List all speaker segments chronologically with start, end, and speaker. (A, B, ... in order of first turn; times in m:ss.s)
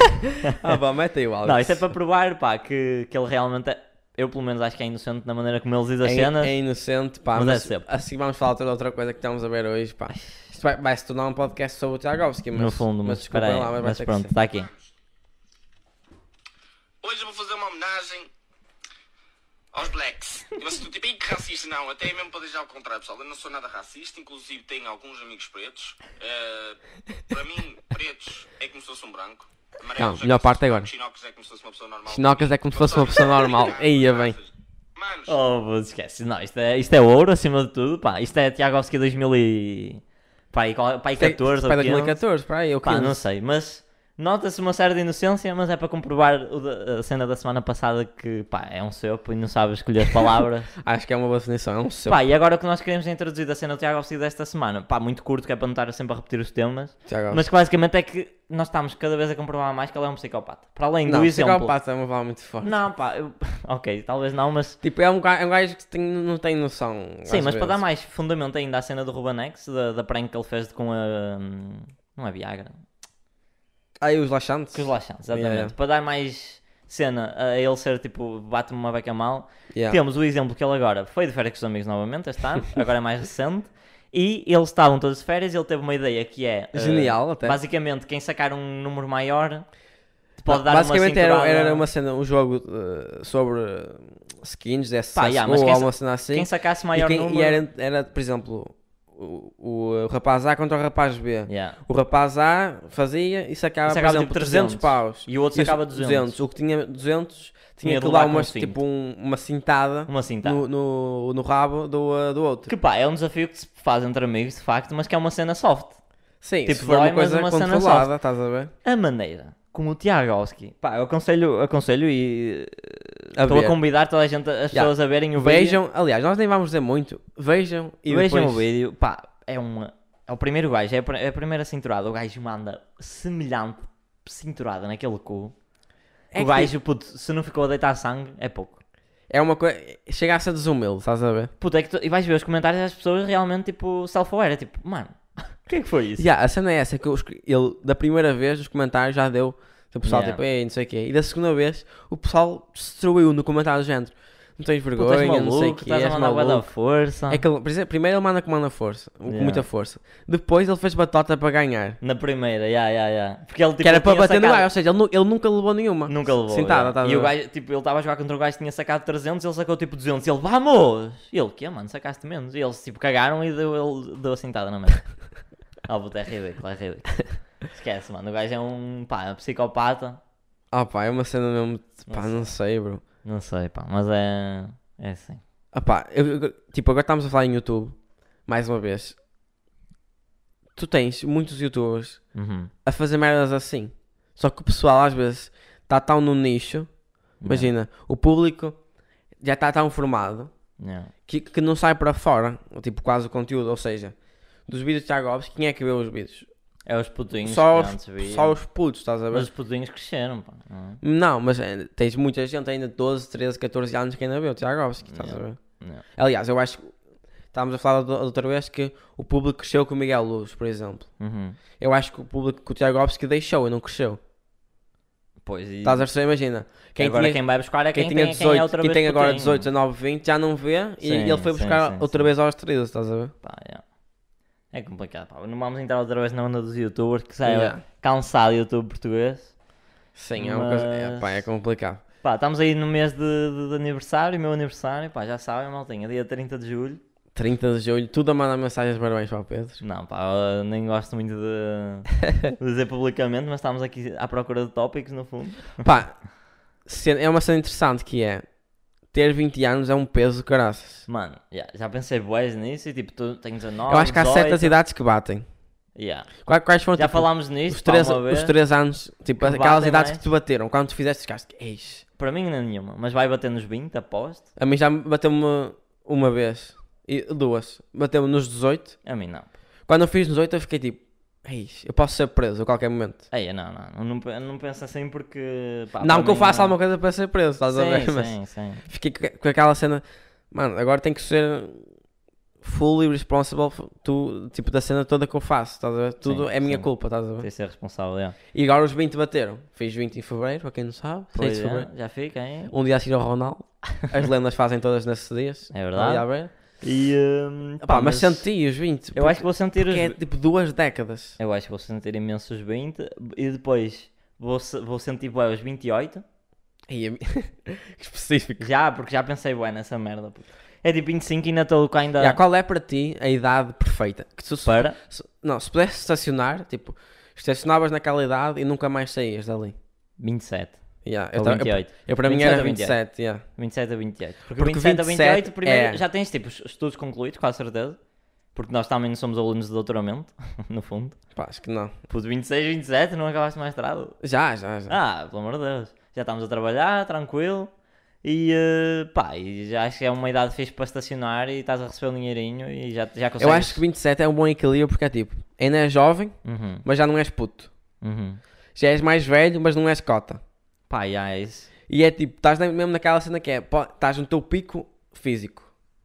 0:00.6-0:01.8 A
0:01.4-0:06.6 B
0:06.0-0:14.3 A
0:07.3-0:07.8 B
0:12.5-0:14.7 B
0:17.0-0:18.3 C
0:19.7-0:26.8 C
0:27.3-0:35.4 C
0:30.0-0:30.9 A
0:32.1-0:34.4 A
0:35.3-0:42.2 B
0:41.2-0:43.2 A
0:42.8-0:50.7 B
0:50.8-0:52.2 A
0:52.1-1:01.7 B
0:57.1-0:57.4 A
1:01.1-1:02.7 A
1:02.6-1:04.8 B
1:04.8-1:07.8 A
1:07.3-1:12.8 B
1:14.0-1:15.7 A
1:14.7-1:29.7 B
1:19.7-1:20.0 A
1:26.7-1:27.6 A
1:30.4-1:31.8 B
1:30.5-1:52.7 A
1:35.2-1:37.6 B
1:41.5-1:41.8 B
1:43.9-1:46.3 B
1:47.8-1:48.8 B
1:50.1-1:50.6 B
1:52.7-1:56.0 B
1:56.4-1:58.7 A
1:56.7-1:58.1 B
1:58.8-2:05.8 B
2:03.4-2:03.8 A
2:04.7-2:08.6 A
2:08.1-2:15.6 B
2:16.3-2:16.7 A
2:16.3-2:18.8 B
2:19.3-2:21.5 A
2:21.6-2:26.3 B
2:26.2-2:36.7 A
2:30.0-2:30.4 B
2:35.0-2:37.4 B
2:37.3-2:42.0 A
2:39.3-2:39.6 B
2:42.0-2:44.7 B
2:43.8-2:47.3 A
2:46.1-2:55.1 B
2:55.8-3:00.2 B
3:00.7-3:03.0 A
3:02.1-3:02.5 B
3:03.2-3:05.4 B
3:05.7-3:08.0 A
3:08.5-3:09.2 A
3:10.8-3:12.3 A
3:12.4-3:12.7 B
3:12.8-3:18.8 A
3:17.4-3:17.7 B
3:19.4-3:20.5 A
3:20.8-3:21.1 B
3:21.3-3:24.2 A
3:24.7-3:26.5 A
3:26.9-3:28.6 B
3:27.4-3:29.5 A
3:29.3-3:31.0 B
3:31.0-3:36.9 A
3:35.1-3:36.0 B
3:37.5-3:41.1 A
3:41.2-3:41.6 B
3:41.8-3:44.2 A
3:45.4-3:46.1 B
3:45.8-3:53.3 A
3:47.0-3:49.7 B
3:51.0-3:52.3 B
3:53.4-3:53.8 B
3:54.7-3:59.6 B
3:57.4-3:57.8 A
4:00.2-4:02.0 A
4:00.4-4:01.5 B
4:02.2-4:07.0 B
4:07.4-4:09.8 A
4:09.8-4:15.9 B
4:15.8-4:16.2 A
4:16.8-4:18.5 A
4:19.1-4:21.1 A
4:21.1-4:24.7 B
4:23.9-4:25.5 A
4:26.0-4:26.3 B
4:26.4-4:32.0 A
4:27.0-4:28.5 B
4:29.4-4:30.2 B
4:32.2-4:34.5 B
4:34.6-4:39.0 A
4:39.0-4:39.5 B
4:39.9-4:43.3 A
4:43.3-4:46.8 B
4:46.0-4:51.9 A
4:47.7-4:48.8 B
4:52.6-4:57.5 A
4:56.2-4:58.4 B
4:58.5-5:01.9 A
5:01.4-5:02.7 B
5:02.7-5:06.5 A
5:05.7-5:08.5 B
5:07.8-5:11.4 A
5:09.2-5:10.2 B
5:11.4-5:16.2 B
5:16.9-5:18.7 A
5:18.6-5:22.4 B
5:22.2-5:29.8 A
5:24.6-5:25.0 B
5:30.2-5:33.0 B
5:31.0-5:33.4 A
5:33.6-5:38.0 B
5:34.6-5:36.0 A
5:38.5-5:41.2 B
5:41.4-5:41.9 A
5:42.1-5:44.2 B
5:44.2-5:45.0 A
5:44.9-5:47.7 B
5:48.2-5:53.8 B
5:53.4-5:57.7 A
5:56.4-5:56.8 B
5:58.0-5:58.4 B
5:58.8-6:00.4 A
6:00.9-6:01.7 B
6:01.9-6:05.7 A